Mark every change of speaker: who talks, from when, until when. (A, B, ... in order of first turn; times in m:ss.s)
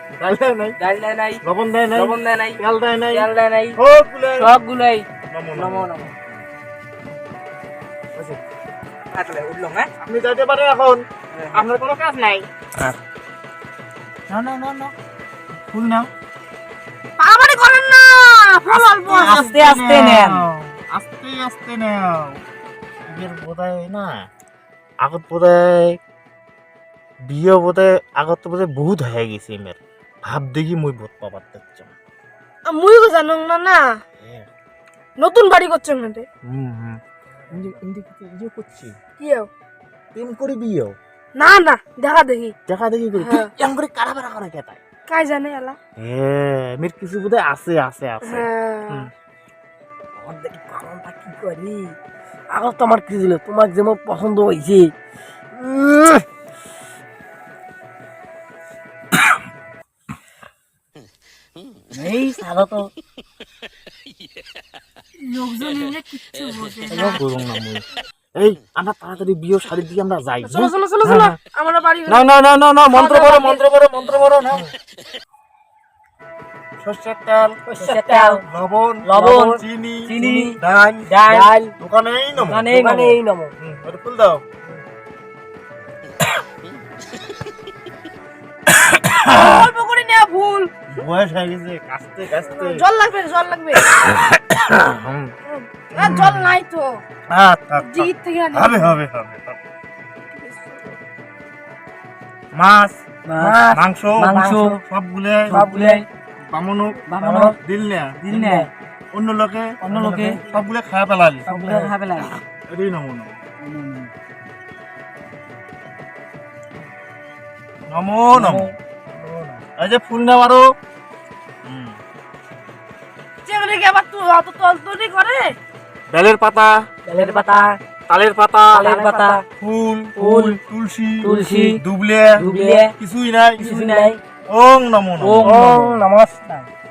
0:00.2-0:00.7 A
0:00.8-0:01.4 B
0:01.4-0:04.5 A
0:01.9-0:02.6 B
0:03.1-0:03.8 B
0:04.4-0:06.1 B
0:05.3-0:05.9 A
0:09.1-0:09.9 B
0:10.0-0:12.9 A
0:11.3-0:11.6 B
0:14.3-0:14.9 A
0:15.6-0:16.1 A
0:17.2-0:19.5 C
0:18.7-0:22.4 A
0:19.2-0:20.4 B
0:23.1-0:24.3 A
0:25.0-0:26.0 A
0:27.2-0:31.9 A
0:32.6-0:33.8 C
0:34.2-0:34.5 A
0:35.2-0:36.2 C
0:36.4-0:37.0 A
0:37.5-0:38.9 A
0:39.2-0:39.5 C
0:40.1-0:41.0 A
0:41.4-0:42.5 C
0:42.7-0:44.8 A
0:43.1-0:43.5 C
0:45.1-0:45.8 C
0:46.0-0:49.1 A
0:48.2-0:49.1 C
0:50.2-0:51.9 D
0:52.5-0:54.9 D
0:55.5-0:56.2 D
1:01.9-1:02.9 E
1:05.2-1:07.2 C
1:07.1-1:07.8 A
1:08.4-1:11.3 A
1:10.4-1:12.3 C
1:12.1-1:14.7 A
1:12.9-1:13.6 C
1:16.8-1:17.6 A
1:17.7-1:18.4 D
1:17.8-1:18.4 B
1:18.5-1:22.7 A
1:19.1-1:20.6 B
1:19.1-1:19.6 D
1:20.2-1:20.5 D
1:21.1-1:21.7 B
1:22.5-1:23.2 B
1:22.5-1:23.5 D
1:23.6-1:24.4 A
1:28.8-1:29.1 A
1:29.2-1:30.7 C
1:30.9-1:32.8 A
1:32.4-1:33.9 C
1:33.8-1:35.3 A
1:35.5-1:37.0 C
1:36.0-1:36.5 A
1:37.3-1:39.6 A
1:37.8-1:39.0 C
1:40.3-1:40.8 C
1:42.5-1:45.6 A
1:43.2-1:43.6 E
1:43.4-1:43.8 D
1:44.2-1:44.8 E
1:45.5-1:46.0 D
1:45.5-1:46.0 E
1:46.5-1:47.0 A
1:47.1-1:47.5 E
1:47.2-1:47.5 D
1:47.6-1:48.6 A
1:48.2-1:48.6 E
1:49.1-1:51.4 A
1:49.8-1:50.4 E
1:51.5-1:51.9 D
1:51.5-1:52.3 E
1:52.7-1:53.4 A
1:53.6-1:54.1 E
1:57.9-2:00.7 A
1:58.3-1:58.7 E
2:01.6-2:02.0 A
2:03.4-2:05.6 C
2:06.1-2:06.8 A
2:07.1-2:07.8 E
2:07.1-2:07.4 D
2:08.1-2:09.0 A
2:08.7-2:09.4 E
2:09.0-2:09.4 B
2:09.6-2:12.4 A
2:10.2-2:10.5 E
2:11.2-2:11.8 E
2:11.3-2:11.7 D
2:12.4-2:12.9 E
2:12.4-2:12.9 B
2:13.0-2:13.7 A
2:13.6-2:14.1 D
2:13.6-2:14.2 B
2:14.5-2:15.6 A
2:15.2-2:16.0 E
2:15.4-2:16.7 D